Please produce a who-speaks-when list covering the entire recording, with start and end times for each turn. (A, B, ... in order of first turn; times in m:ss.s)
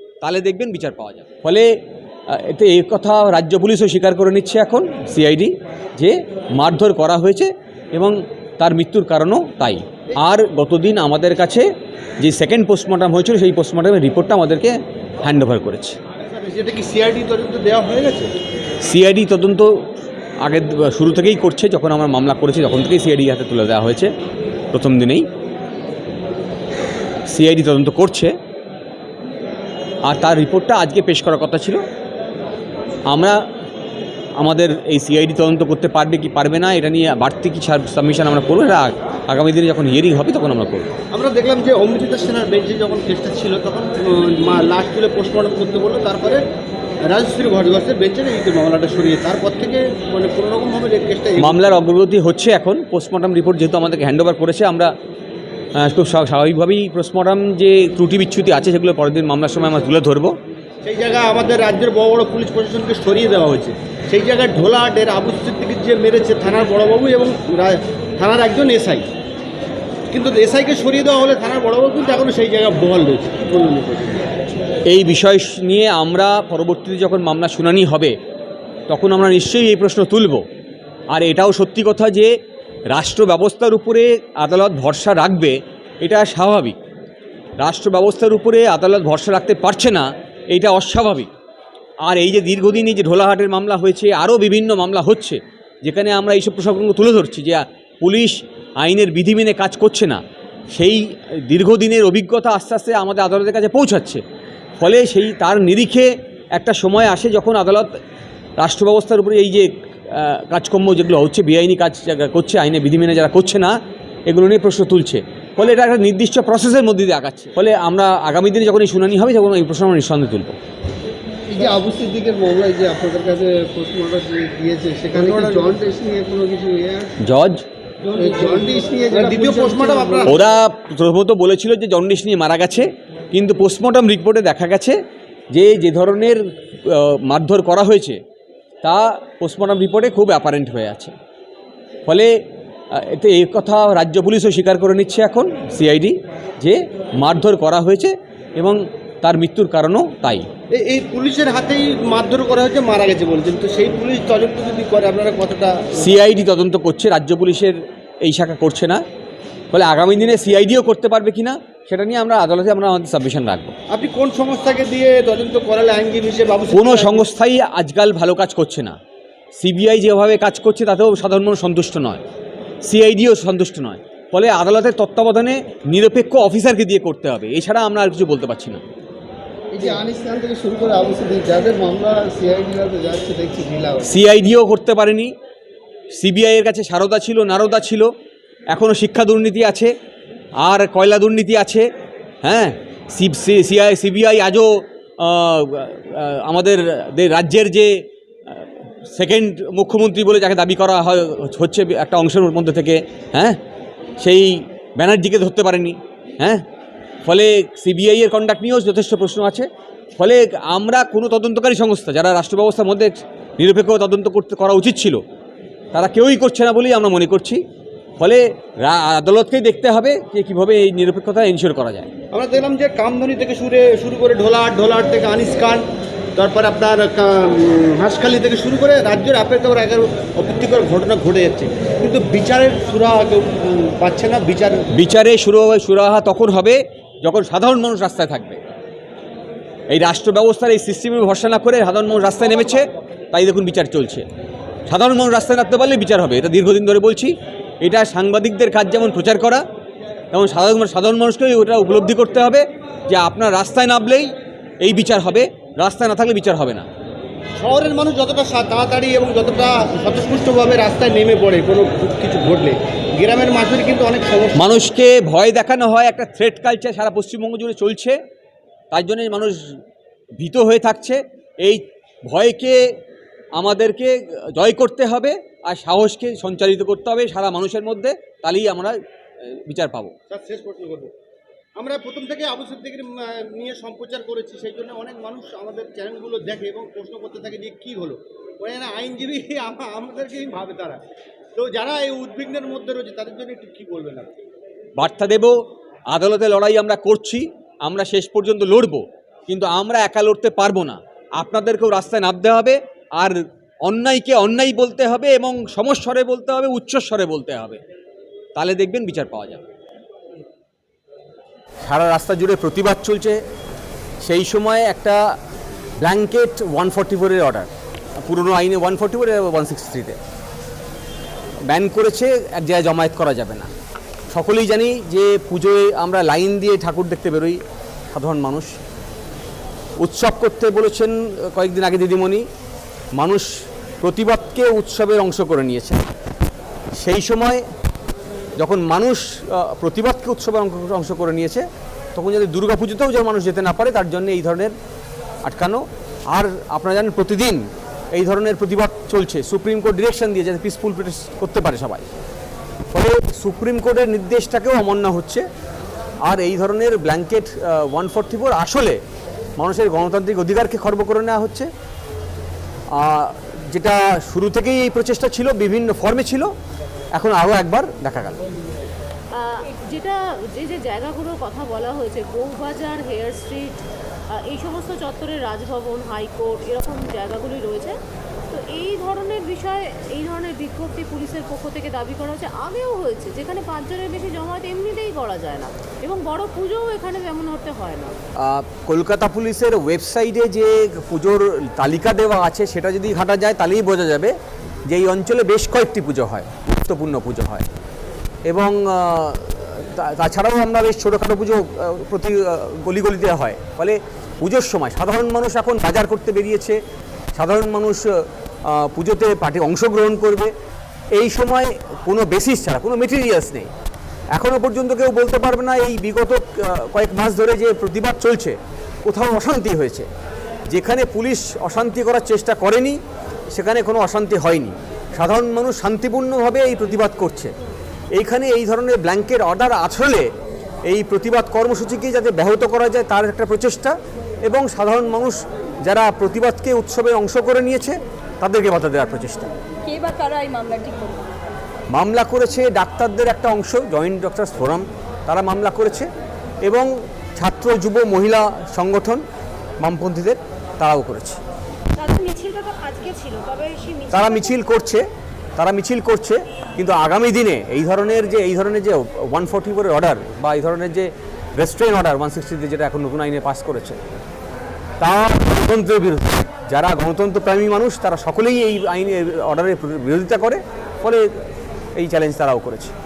0:00.2-0:01.8 A
0:02.3-0:11.7 A
0:12.2-0:16.0 A
0:16.3-0:18.3 B
0:18.8-0:19.8 A
0:20.4-0:24.1 A
0:24.7-0:25.3 A
0:27.3-0:28.3 A
0:30.0-0:31.8 A
0:33.1-0:33.4 A
0:34.4-0:40.9 A
0:41.1-0:46.4 B
0:47.0-0:51.6 B
0:51.4-0:54.9 A
0:55.8-1:00.4 A
1:00.8-1:09.1 B
1:10.1-1:14.3 B
1:14.9-1:18.1 A
1:18.9-1:20.4 A
1:21.1-1:22.3 A
1:22.9-1:26.8 A
1:27.6-1:31.3 A
1:32.0-1:44.2 A
1:44.8-1:48.0 A
1:48.6-1:53.8 A
1:54.3-2:00.6 A
2:01.5-2:07.2 C
2:05.1-2:05.8 B
2:07.2-2:07.6 A
2:08.1-2:10.4 C
2:08.2-2:10.4 B
2:10.3-2:15.0 A
2:15.5-2:18.2 A
2:18.8-2:21.1 A
2:22.1-2:22.4 A
2:22.9-2:30.5 A
2:30.7-2:36.1 B
2:36.0-2:39.0 A
2:39.7-2:43.8 A
2:43.9-2:47.3 B
2:46.7-2:49.0 A
2:49.6-2:52.2 A
2:52.8-2:58.8 A
2:59.7-3:04.1 C
3:04.0-3:05.3 A
3:06.2-3:08.1 A
3:08.7-3:09.9 A
3:10.6-3:11.9 A
3:12.4-3:23.6 A
3:24.2-3:26.6 A
3:27.2-3:35.2 A
3:35.9-3:37.6 A
3:38.2-3:42.1 A
3:42.3-3:45.8 B
3:46.4-3:54.8 B
3:54.9-3:58.6 A
3:59.9-4:04.3 A
4:04.9-4:09.6 A
4:10.3-4:16.9 A
4:17.6-4:24.7 B
4:24.6-4:28.2 A
4:28.9-4:29.8 A
4:30.4-4:32.8 A
4:33.6-4:40.1 A
4:40.3-4:41.1 B
4:41.8-4:51.0 B
4:51.6-4:54.3 B
4:55.0-5:07.8 A
5:08.6-5:09.6 A
5:11.8-5:13.4 A
5:14.2-5:15.2 A
5:16.0-5:20.2 A
5:21.7-5:23.7 A
5:24.3-5:27.6 A
5:28.1-5:28.8 A
5:30.0-5:32.5 A
5:33.2-5:36.0 A
5:37.0-5:37.6 A
5:38.6-5:44.8 A
5:45.4-5:52.0 A
5:52.9-5:55.5 A
5:56.2-5:59.0 A
5:59.6-6:01.7 A
6:02.9-6:06.5 A
6:07.2-6:08.5 A
6:09.3-6:18.0 D
6:18.5-6:28.2 D
6:28.4-6:34.3 A
6:34.9-6:37.7 A
6:38.5-6:46.8 A
6:47.4-6:50.5 A
6:51.1-6:53.7 A
6:54.3-7:00.1 A
7:00.7-7:03.0 A
7:03.5-7:07.5 A
7:08.1-7:10.3 A
7:10.8-7:19.5 A
7:19.8-7:21.3 E
7:21.9-7:26.1 A
7:26.6-7:29.2 A
7:29.8-7:31.4 A
7:32.0-7:34.0 E
7:34.1-7:35.0 A
7:35.6-7:44.0 A
7:45.0-7:51.4 A
7:52.0-7:52.9 A